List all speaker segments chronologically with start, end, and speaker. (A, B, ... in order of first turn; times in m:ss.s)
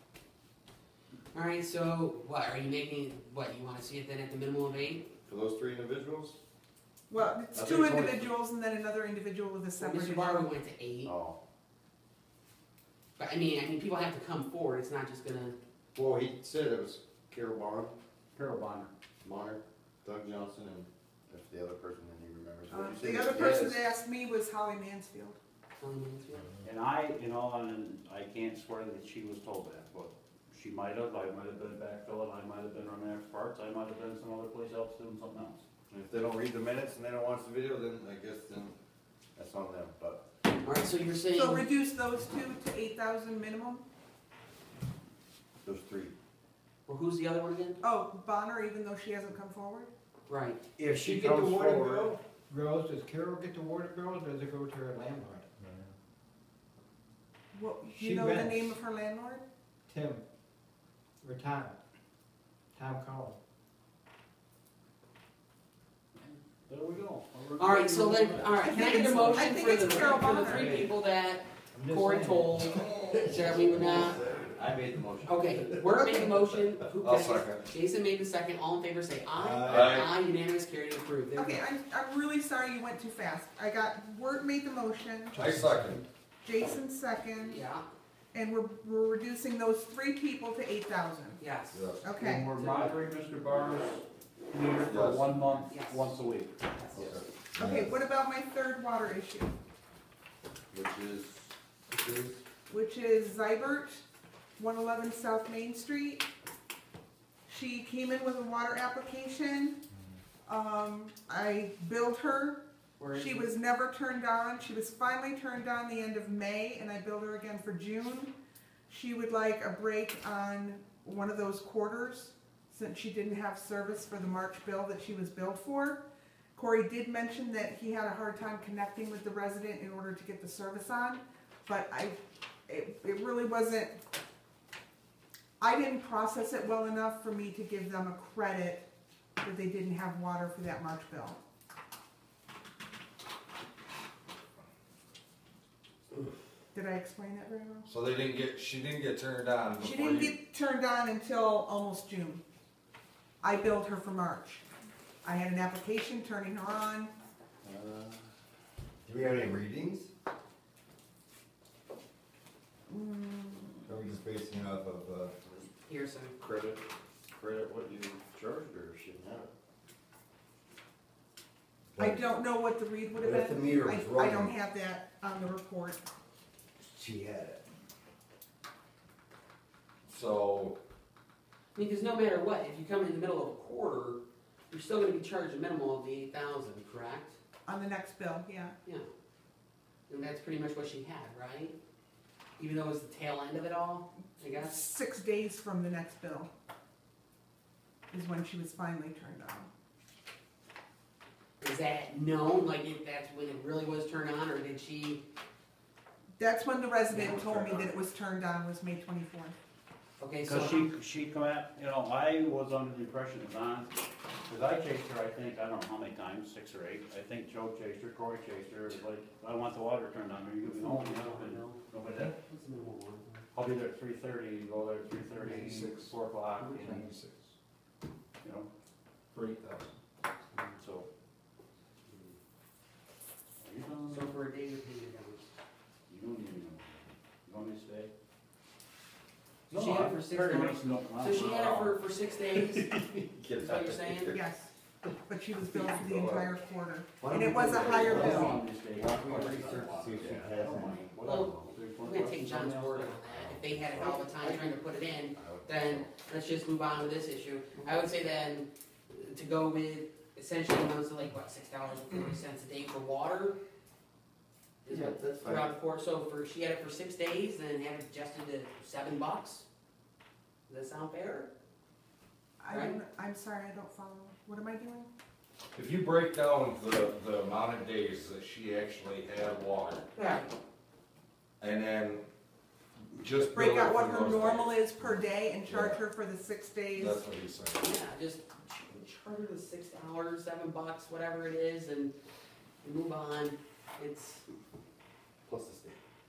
0:01.3-0:05.1 A
0:05.2-0:06.4 B
0:07.1-0:10.5 C
0:07.5-0:08.4 B
0:09.8-0:11.1 A
0:11.0-0:11.4 B
0:13.2-0:15.6 A
0:16.0-0:18.0 B
0:18.4-0:18.9 D
0:19.2-0:23.8 B
0:22.7-0:25.4 C
0:25.8-0:26.5 A
0:26.6-0:35.6 D
0:35.9-0:38.8 B
0:39.4-0:40.2 B
0:40.6-0:41.7 A
0:41.3-0:43.8 C
0:45.6-0:46.1 B
0:46.9-0:47.8 A
0:47.8-0:49.9 C
0:50.3-0:50.6 A
0:50.8-0:52.2 B
0:50.8-0:55.5 E
0:57.5-0:59.4 C
0:57.9-0:58.8 E
0:59.9-1:00.2 E
1:01.2-1:01.8 E
1:02.8-1:03.4 E
1:06.2-1:09.6 D
1:07.6-1:14.2 A
1:08.6-1:10.8 C
1:10.6-1:10.9 E
1:11.7-1:13.2 E
1:13.0-1:16.6 B
1:15.2-1:21.6 A
1:17.0-1:17.6 F
1:19.4-1:19.7 E
1:19.6-1:20.1 F
1:21.4-1:25.4 C
1:25.4-1:26.0 F
1:25.4-1:25.7 E
1:26.4-1:27.6 C
1:27.4-1:27.9 A
1:28.3-1:31.4 C
1:31.4-1:31.8 A
1:31.7-1:32.1 F
1:32.0-1:32.5 C
1:32.2-1:36.6 D
1:32.5-1:33.0 A
1:34.9-1:35.4 F
1:35.7-1:36.1 A
1:36.7-1:37.0 A
1:37.0-1:37.2 F
1:37.6-1:39.5 C
1:40.7-1:41.5 B
1:41.9-1:42.4 A
1:42.7-1:44.0 C
1:44.6-1:46.2 C
1:47.5-1:49.8 C
1:50.4-1:52.6 C
1:53.0-1:53.5 A
1:53.1-1:58.3 C
1:58.9-2:06.0 C
2:06.6-2:14.0 C
2:15.6-2:18.8 C
2:19.4-2:21.4 C
2:26.7-2:27.9 C
2:27.9-2:30.4 F
2:29.8-2:32.4 C
2:33.4-2:34.6 C
2:35.2-2:37.1 C
2:37.6-2:38.2 B
2:39.0-2:40.1 B
2:42.9-2:43.9 C
2:43.9-2:45.7 B
2:45.9-2:46.3 A
2:46.4-2:49.5 B
2:52.0-2:56.0 C
2:53.2-2:54.6 B
2:56.8-2:57.6 B
3:00.1-3:00.8 F
3:01.8-3:07.4 A
3:07.7-3:08.8 C
3:08.8-3:09.1 A
3:10.1-3:11.8 A
3:12.6-3:14.8 A
3:14.5-3:16.5 C
3:18.1-3:19.7 C
3:21.6-3:25.2 A
3:26.4-3:29.6 C
3:27.1-3:28.0 A
3:30.2-3:30.9 A
3:30.4-3:33.9 D
3:34.5-3:42.4 D
3:40.7-3:43.5 A
3:43.5-3:47.1 D
3:45.4-3:47.5 F
3:48.4-3:48.7 D
3:49.3-3:49.9 F
3:50.5-3:51.1 D
3:53.6-3:54.3 D
3:54.1-3:55.4 A
3:56.1-3:58.1 D
3:59.7-4:03.0 D
3:59.7-4:02.9 A
4:02.8-4:04.5 B
4:03.6-4:04.4 A
4:04.3-4:04.7 C
4:05.3-4:08.6 C
4:05.8-4:06.5 B
4:07.2-4:11.8 B
4:07.3-4:13.2 D
4:11.2-4:23.6 A
4:13.2-4:16.2 B
4:24.8-4:29.7 A
4:24.9-4:25.7 B
4:30.7-4:31.5 A
4:32.6-4:35.1 C
4:32.7-4:33.0 A
4:35.8-4:40.0 F
4:40.1-4:40.6 A
4:41.6-4:42.2 F
4:43.2-4:46.0 F
4:43.5-4:47.2 C
4:47.0-4:47.9 F
4:47.8-4:52.1 A
4:52.8-4:54.4 A
4:55.4-4:56.0 B